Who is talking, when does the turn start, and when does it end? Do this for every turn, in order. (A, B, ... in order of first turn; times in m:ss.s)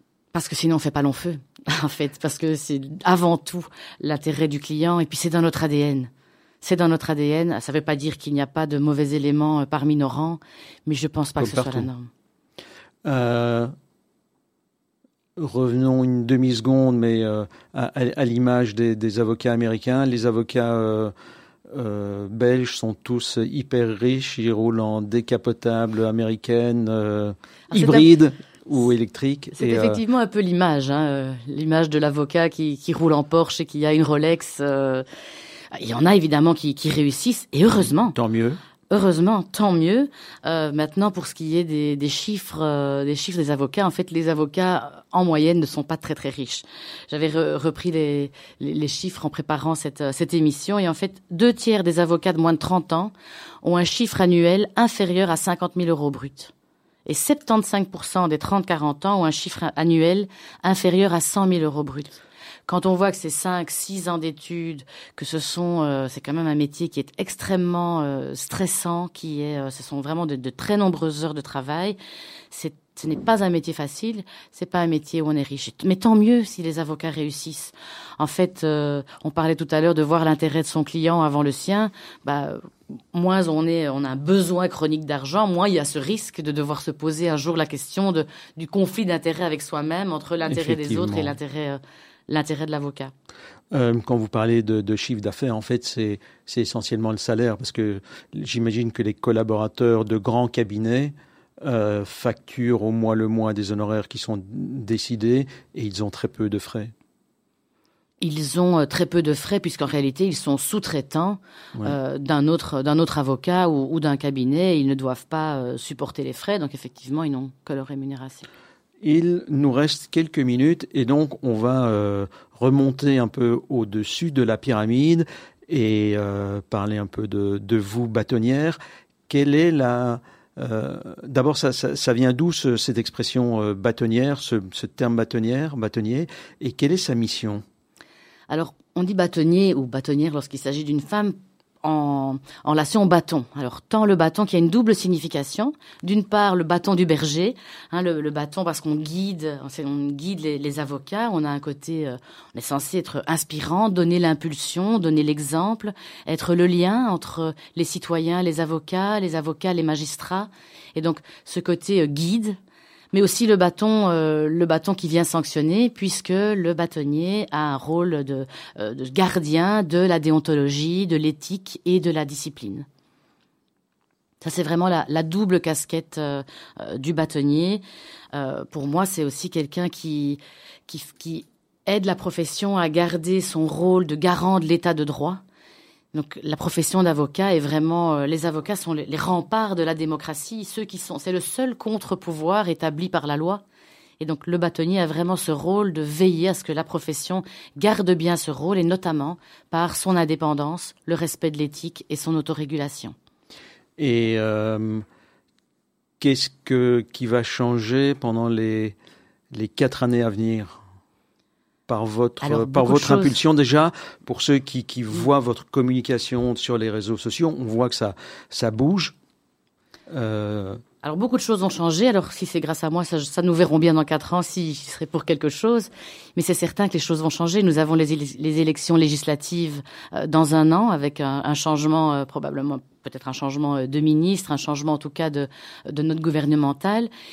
0:00.3-0:06.1 A
0:06.6-0:12.1 A
0:11.4-0:11.9 B
0:13.0-0:13.7 B
0:15.4-0:21.1 B
0:21.7-0:30.0 B
0:27.7-0:28.1 A
0:29.6-0:35.0 A
0:35.7-0:38.1 A
0:37.8-0:38.6 B
0:38.9-0:56.5 A
0:57.0-1:12.0 A
1:12.5-1:33.1 A
1:30.5-1:31.3 B
1:33.7-1:46.9 B
1:48.2-1:58.5 A
1:59.0-2:08.8 B
2:09.3-2:17.6 B
2:18.5-2:42.6 A
2:43.1-2:52.9 A
2:54.4-3:05.4 A
3:06.1-3:13.6 A
3:14.2-3:23.1 A
3:24.0-3:25.0 B
3:26.2-3:29.0 B
3:29.5-3:30.8 B
3:31.9-3:39.1 B
3:32.4-3:33.4 A
3:40.1-3:40.8 B
3:41.0-3:57.1 A